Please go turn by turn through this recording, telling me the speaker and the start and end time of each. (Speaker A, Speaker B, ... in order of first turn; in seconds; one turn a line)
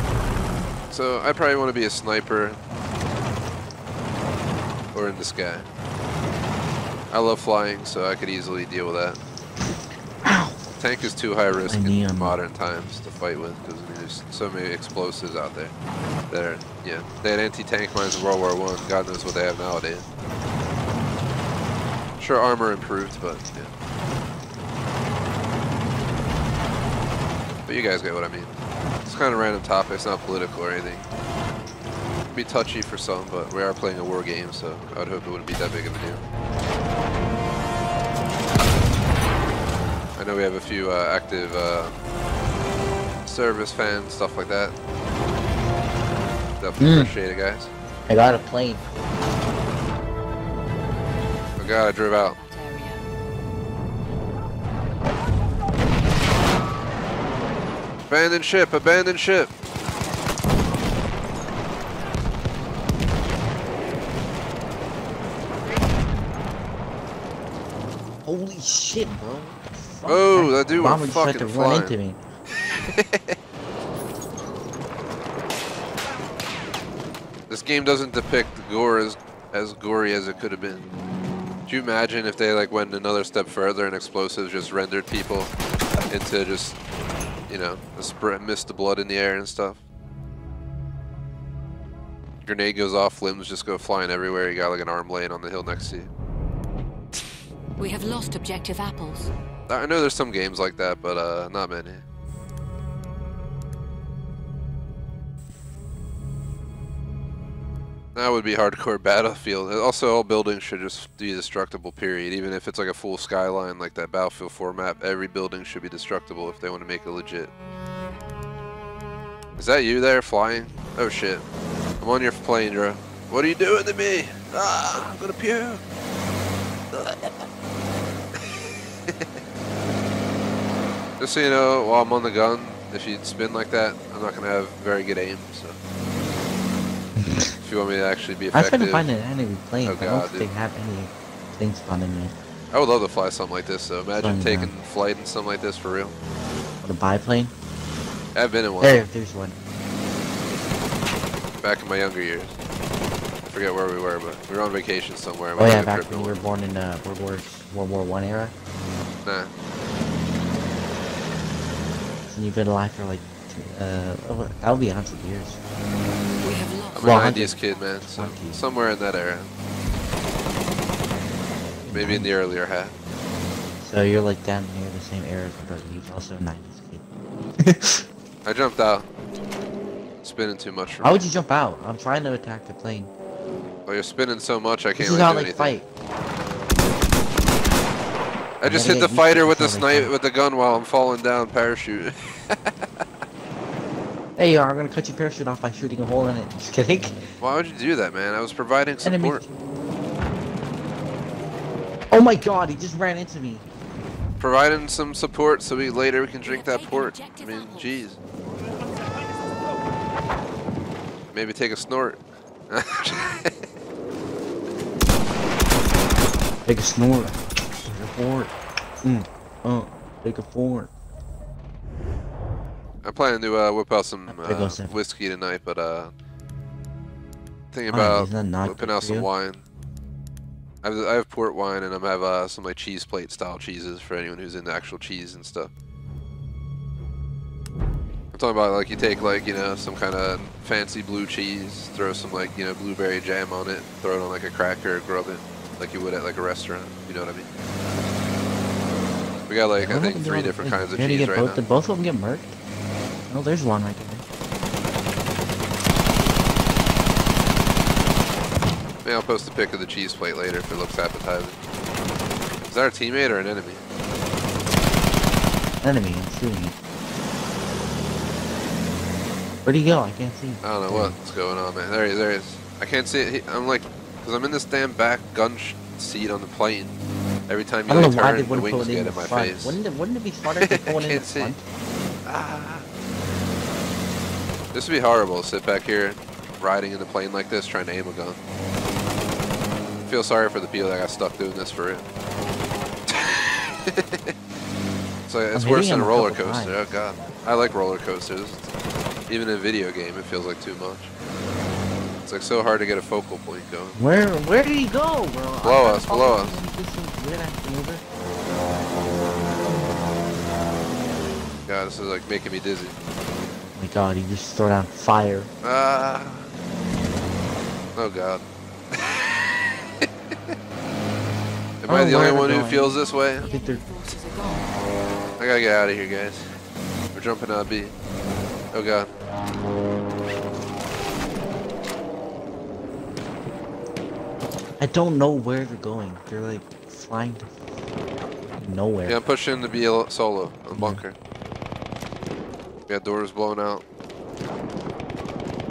Speaker A: 0.9-2.6
Speaker A: 4.9-5.7
Speaker A: 7.1-9.2
Speaker B: 10.2-10.7
Speaker A: 10.8-15.7
Speaker B: 11.5-12.4
Speaker A: 16.3-20.1
Speaker A: 22.2-23.7
Speaker A: 27.7-28.5
Speaker A: 29.1-31.1
Speaker A: 32.3-36.2
Speaker A: 40.2-41.9
Speaker A: 43.3-44.7
Speaker A: 46.6-47.7
Speaker B: 46.8-47.1
Speaker B: 48.1-48.9
Speaker A: 51.6-52.4
Speaker C: 52.1-53.1
Speaker A: 58.1-59.5
Speaker B: 68.2-72.2
Speaker A: 70.1-72.0
Speaker A: 72.9-73.4
Speaker A: 77.5-80.9
Speaker A: 81.7-85.5
Speaker A: 86.1-86.8
Speaker A: 87.5-89.8
Speaker A: 92.5-96.1
Speaker C: 97.8-99.3
Speaker A: 99.7-102.0
Speaker A: 108.2-117.5
Speaker A: 119.6-121.4
Speaker A: 122.0-125.8
Speaker A: 126.9-127.3
Speaker A: 128.3-129.3
Speaker A: 131.2-135.8
Speaker B: 137.2-137.6
Speaker A: 137.6-139.1
Speaker B: 138.5-142.4
Speaker A: 139.8-140.5
Speaker A: 142.7-146.1
Speaker B: 144.1-144.8
Speaker B: 146.8-147.5
Speaker A: 148.3-149.0
Speaker B: 148.8-149.6
Speaker A: 151.6-152.6
Speaker A: 153.5-156.4
Speaker B: 155.6-158.6
Speaker A: 159.2-159.5
Speaker B: 162.2-165.6
Speaker C: 166.4-167.3
Speaker A: 166.9-169.5
Speaker B: 167.0-168.7
Speaker B: 171.8-172.4
Speaker A: 171.9-173.0
Speaker B: 173.8-177.1
Speaker B: 177.6-178.1
Speaker A: 178.4-179.1
Speaker A: 180.2-181.2
Speaker B: 181.0-183.1
Speaker A: 183.9-185.8
Speaker B: 185.0-185.9
Speaker A: 188.6-193.0
Speaker B: 188.6-190.1
Speaker B: 194.4-197.3
Speaker A: 197.4-199.4
Speaker B: 199.0-199.5
Speaker B: 202.1-203.7
Speaker A: 204.4-208.2
Speaker C: 206.4-208.1
Speaker A: 211.3-213.6
Speaker B: 216.6-220.9
Speaker A: 223.0-226.1
Speaker B: 224.3-225.0
Speaker A: 227.7-229.6
Speaker B: 227.9-229.3
Speaker A: 230.8-235.7
Speaker A: 238.3-247.5
Speaker A: 249.5-251.6
Speaker B: 249.8-252.6
Speaker B: 253.3-254.3
Speaker A: 259.0-261.6
Speaker A: 262.6-263.8
Speaker B: 265.8-266.8
Speaker B: 269.6-271.2
Speaker A: 270.6-277.0
Speaker A: 277.5-279.8
Speaker B: 277.9-281.6
Speaker A: 280.6-281.6
Speaker A: 282.3-282.9
Speaker A: 284.7-288.4
Speaker A: 290.1-292.0
Speaker A: 293.1-294.3
Speaker A: 295.3-298.7
Speaker B: 295.5-296.8
Speaker A: 299.3-301.1
Speaker A: 302.2-304.0
Speaker B: 304.0-308.0
Speaker A: 305.6-306.6
Speaker A: 311.7-312.9
Speaker B: 313.6-315.5
Speaker A: 315.6-316.5
Speaker A: 317.9-320.5
Speaker A: 321.8-323.5
Speaker B: 321.9-323.8
Speaker C: 323.1-324.8
Speaker A: 325.4-326.6
Speaker A: 327.1-327.9
Speaker A: 328.7-329.1
Speaker B: 334.8-337.5
Speaker B: 338.6-339.2
Speaker A: 339.1-341.2
Speaker B: 340.7-341.0
Speaker A: 342.9-343.8